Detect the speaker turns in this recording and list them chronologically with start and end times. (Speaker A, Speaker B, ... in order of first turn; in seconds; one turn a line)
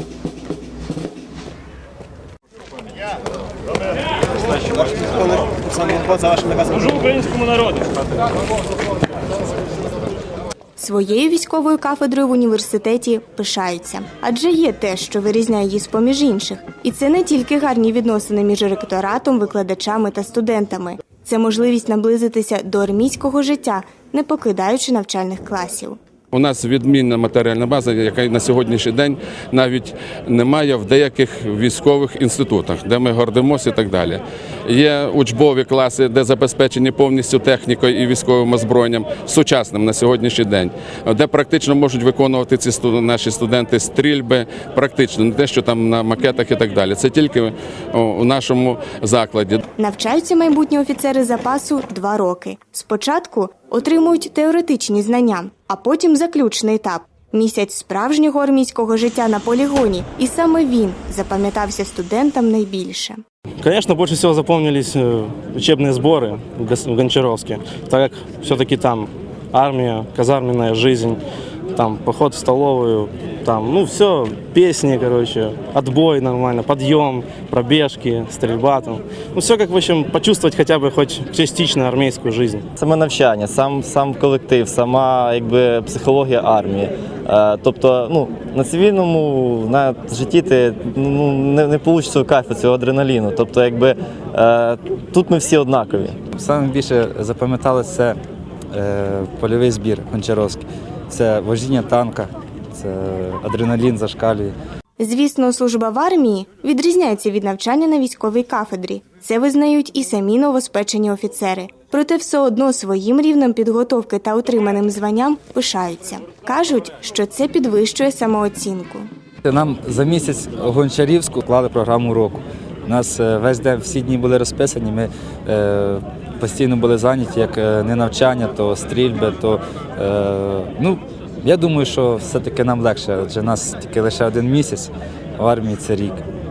Speaker A: 6.0-6.5
Speaker B: 10.8-26.0
Speaker C: 26.3-49.6
Speaker B: 49.8-63.2
Speaker D: 63.6-71.2
Speaker D: 71.7-82.7
Speaker A: 82.8-96.2
Speaker E: 96.3-98.2
Speaker E: 98.7-104.5
Speaker B: 105.0-119.1
Speaker E: 119.5-136.2